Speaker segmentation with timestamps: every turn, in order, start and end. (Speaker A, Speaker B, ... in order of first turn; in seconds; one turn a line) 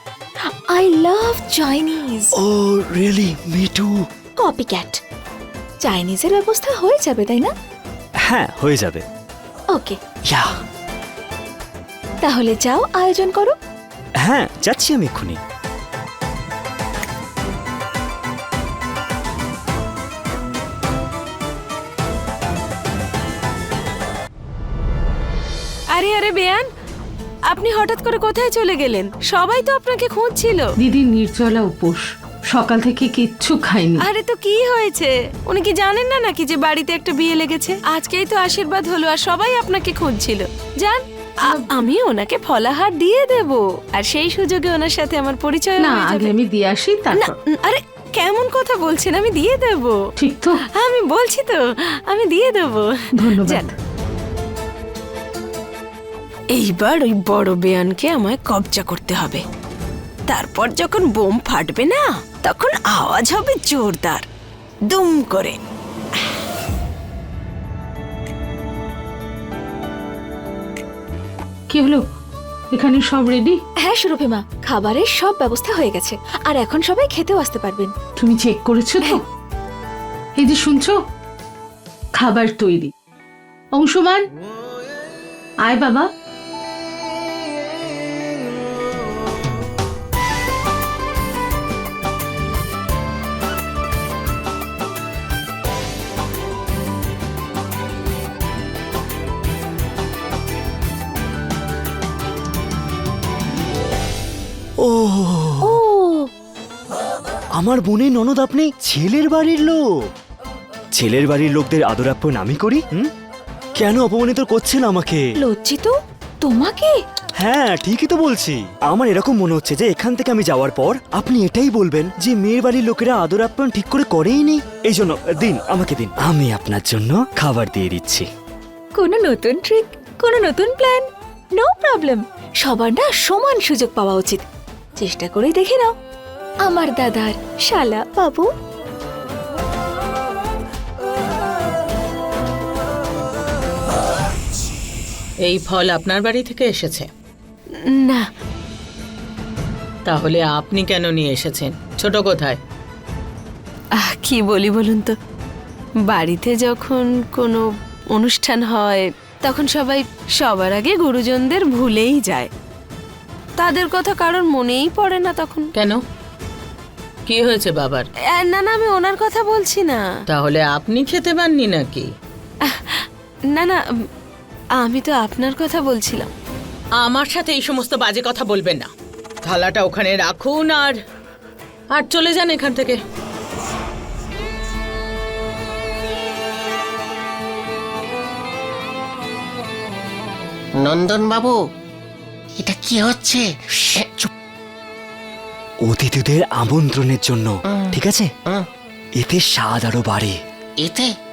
Speaker A: 0.7-2.3
Speaker B: 2.4-4.0
Speaker A: 4.4-5.0
Speaker A: 5.8-7.5
Speaker B: 8.2-9.0
Speaker A: 9.7-10.0
Speaker A: 12.2-13.6
Speaker B: 14.2-15.4
Speaker C: 25.9-26.7
Speaker C: 27.5-30.7
Speaker D: 30.8-34.0
Speaker C: 34.0-46.3
Speaker D: 41.4-41.9
Speaker D: 45.8-47.4
Speaker C: 47.1-50.0
Speaker D: 50.2-50.6
Speaker C: 50.8-53.7
Speaker D: 53.2-53.7
Speaker C: 56.5-59.4
Speaker C: 60.3-64.3
Speaker C: 64.9-65.6
Speaker D: 71.7-72.0
Speaker D: 72.7-73.6
Speaker A: 73.8-77.9
Speaker D: 78.2-79.2
Speaker D: 80.4-81.0
Speaker D: 82.2-82.9
Speaker D: 83.8-84.2
Speaker D: 85.7-86.1
Speaker B: 104.8-105.8
Speaker A: 105.6-106.3
Speaker B: 107.6-109.8
Speaker B: 111.0-113.1
Speaker B: 113.8-115.3
Speaker A: 115.4-117.0
Speaker B: 117.4-128.3
Speaker A: 129.0-134.4
Speaker A: 135.0-135.9
Speaker A: 136.7-138.5
Speaker E: 145.5-147.1
Speaker C: 147.8-148.3
Speaker E: 150.1-152.6
Speaker C: 154.0-155.1
Speaker C: 156.1-157.6
Speaker C: 158.1-162.5
Speaker C: 163.6-165.7
Speaker E: 167.3-168.1
Speaker C: 168.3-170.0
Speaker E: 170.3-172.1
Speaker C: 172.6-173.8
Speaker C: 174.8-176.3
Speaker E: 177.0-178.9
Speaker E: 179.4-181.0
Speaker E: 181.9-183.0
Speaker F: 190.8-191.6
Speaker F: 192.6-194.1
Speaker B: 193.9-194.3
Speaker B: 195.8-198.3
Speaker B: 199.2-200.4
Speaker F: 200.8-201.1